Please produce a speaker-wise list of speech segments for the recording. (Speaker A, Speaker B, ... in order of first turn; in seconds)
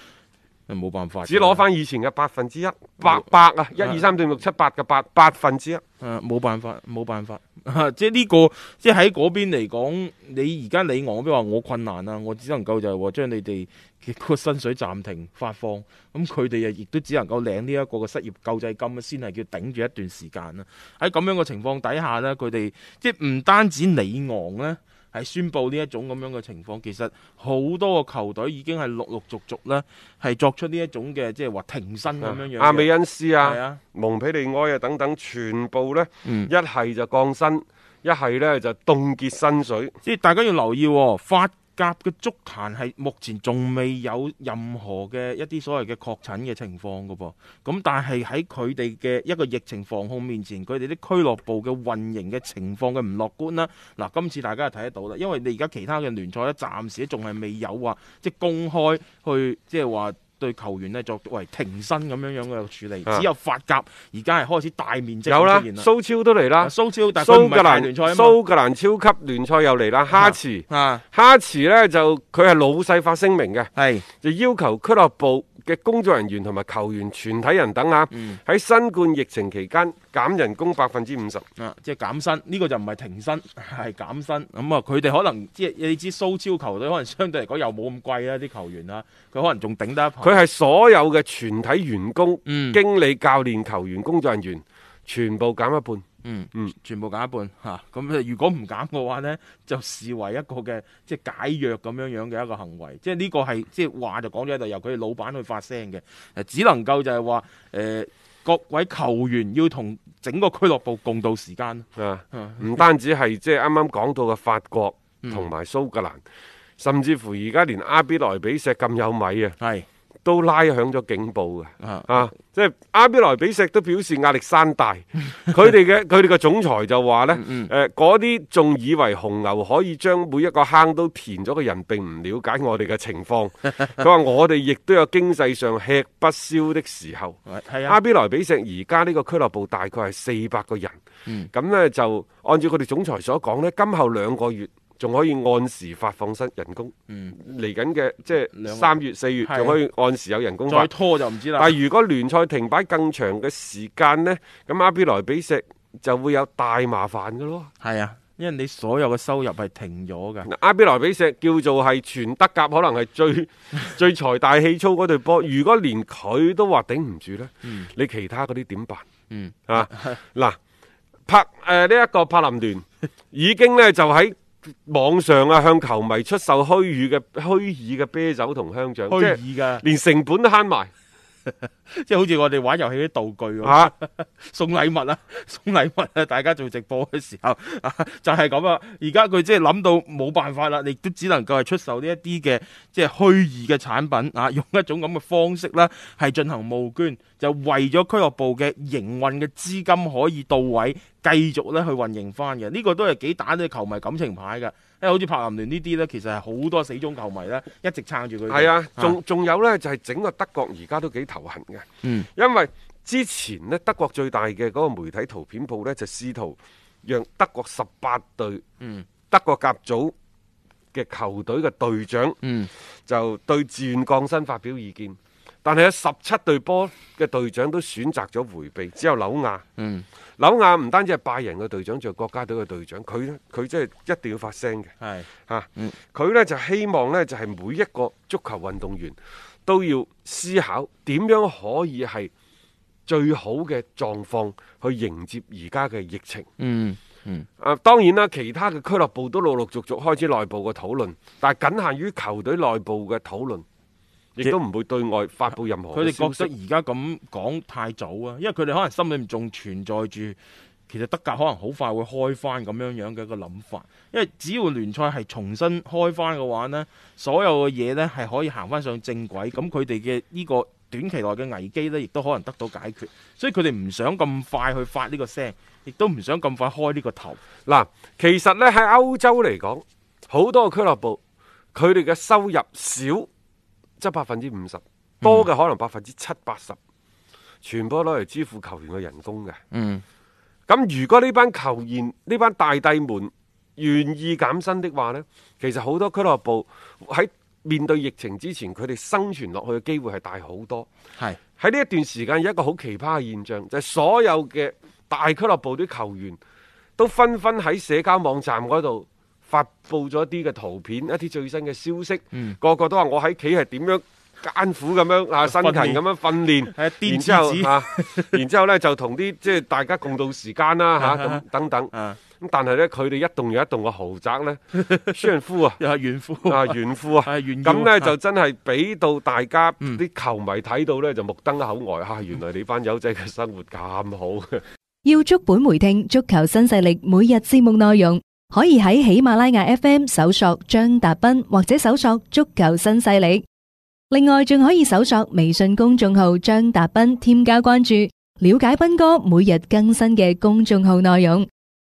Speaker A: 0.7-1.7, 6.0-33.8, 36.2-36.5, 40.0-65.9, 66.6-68.4, 70.1-71.0, 73.8-74.1, 78.1-78.4, 81.6-90.4, 92.5-92.8, 96.2-112.8, 115.2-115.5, 119.6-119.9, 121.8-122.3, 127.3-127.7, 137.5-138.0, 147.1-147.3, 148.5-149.8, 150.7-151.8, 157.8-160.5, 169.3-170.2, 179.1-179.8, 181.6-209.2, 212.0-212.3, 218.8-219.1, 222.4-222.7, 229.8-230.1, 235.0-236.0, 246.6-247.5, 255.9-277.4, 285.2-285.5, 289.7-290.0, 312.3-312.6, 315.4-316.0, 316.6-318.4, 321.0-322.2, 324.7-328.1
Speaker B: 1.2-5.8, 32.2-39.9, 65.3-73.7, 74.2-81.5, 90.2-96.7, 112.0-116.2, 116.8-119.6, 120.2-140.9, 141.5-150.9, 151.6-157.7, 160.4-169.1, 169.7-170.6, 171.3-180.9, 183.6-183.9, 208.5-218.6, 219.3-220.1, 220.9-222.4, 223.1-229.6, 230.4-234.9, 235.5-242.3, 243.1-246.5, 247.6-253.6, 254.4-256.5, 277.7-281.2, 281.8-283.3, 284.0-286.8, 287.6-289.6, 290.7-300.9, 301.6-306.4, 307.0-325.8, 326.5-334.6
Speaker C: 335.1-343.4, 344.1-351.5